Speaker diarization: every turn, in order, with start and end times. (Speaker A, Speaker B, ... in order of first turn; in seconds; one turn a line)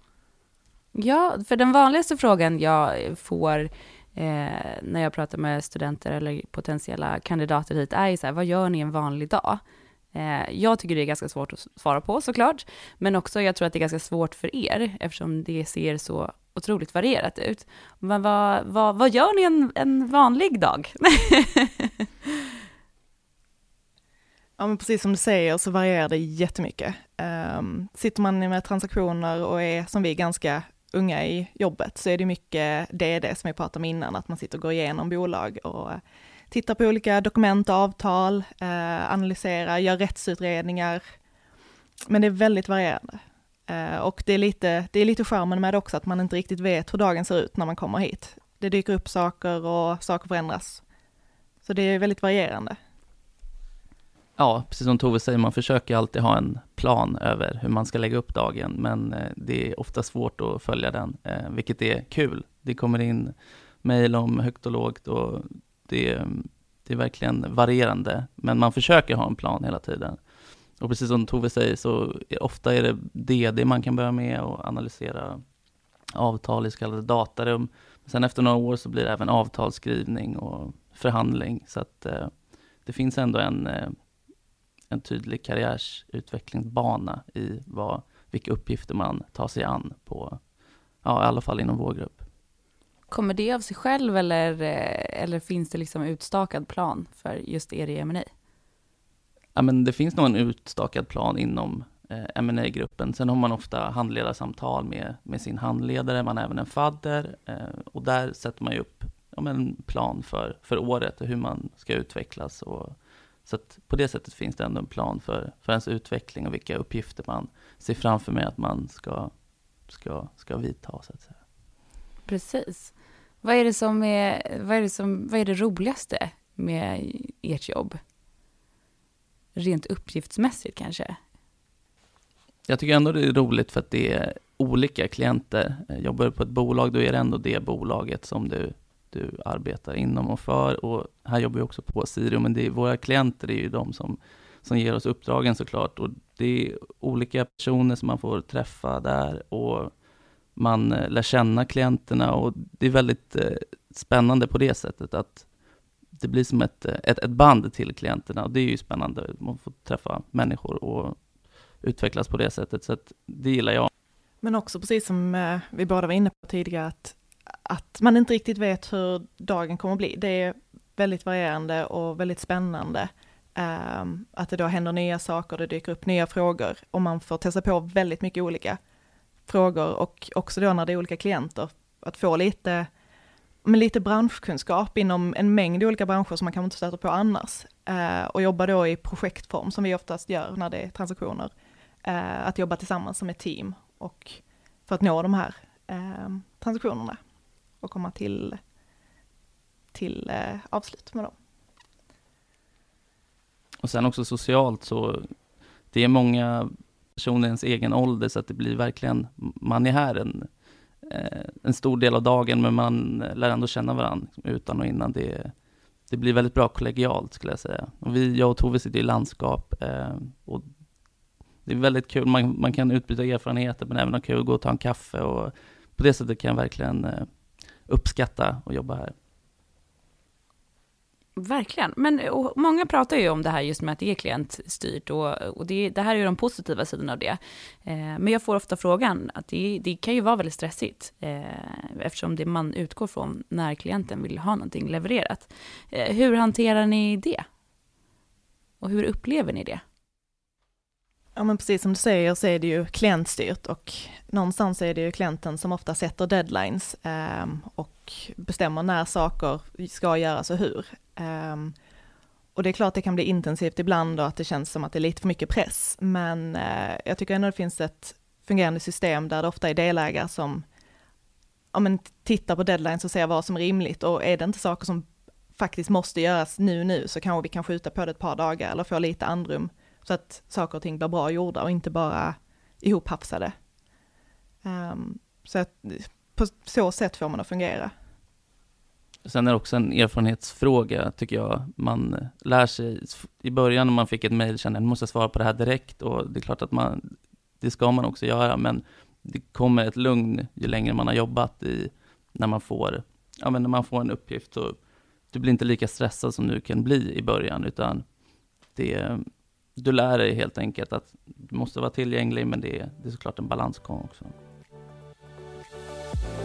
Speaker A: 0.9-9.6
Speaker A: 10.1-22.1
Speaker B: 24.6-41.0
Speaker B: 42.1-50.8
Speaker B: 51.6-52.8
Speaker C: 54.4-70.2
Speaker C: 70.8-75.4
Speaker C: 76.2-82.3
Speaker C: 82.8-84.0
Speaker C: 84.9-90.4
Speaker C: 91.0-92.2
Speaker A: 93.1-98.3
Speaker C: 99.5-113.0
Speaker C: 113.5-119.3
Speaker C: 119.9-121.4
Speaker A: 122.3-128.0
Speaker A: 129.6-131.2
Speaker C: 132.7-149.9
Speaker C: 150.6-155.5
Speaker C: 156.2-161.2
Speaker C: 161.8-163.9
Speaker B: 164.4-178.8
Speaker B: 179.5-182.9
Speaker B: 183.7-191.5
Speaker B: 192.0-197.2
Speaker B: 197.8-198.6
Speaker B: 199.9-201.3
Speaker C: 203.8-205.3
Speaker C: 205.9-210.5
Speaker C: 211.1-215.5
Speaker C: 216.1-220.7
Speaker C: 221.7-227.3
Speaker C: 227.9-229.1
Speaker A: 231.4-247.5
Speaker A: 248.8-249.8
Speaker B: 251.4-261.8
Speaker B: 262.6-270.6
Speaker B: 271.7-283.5
Speaker B: 284.6-287.9
Speaker C: 289.2-304.8
Speaker C: 305.3-308.0
Speaker C: 308.8-314.3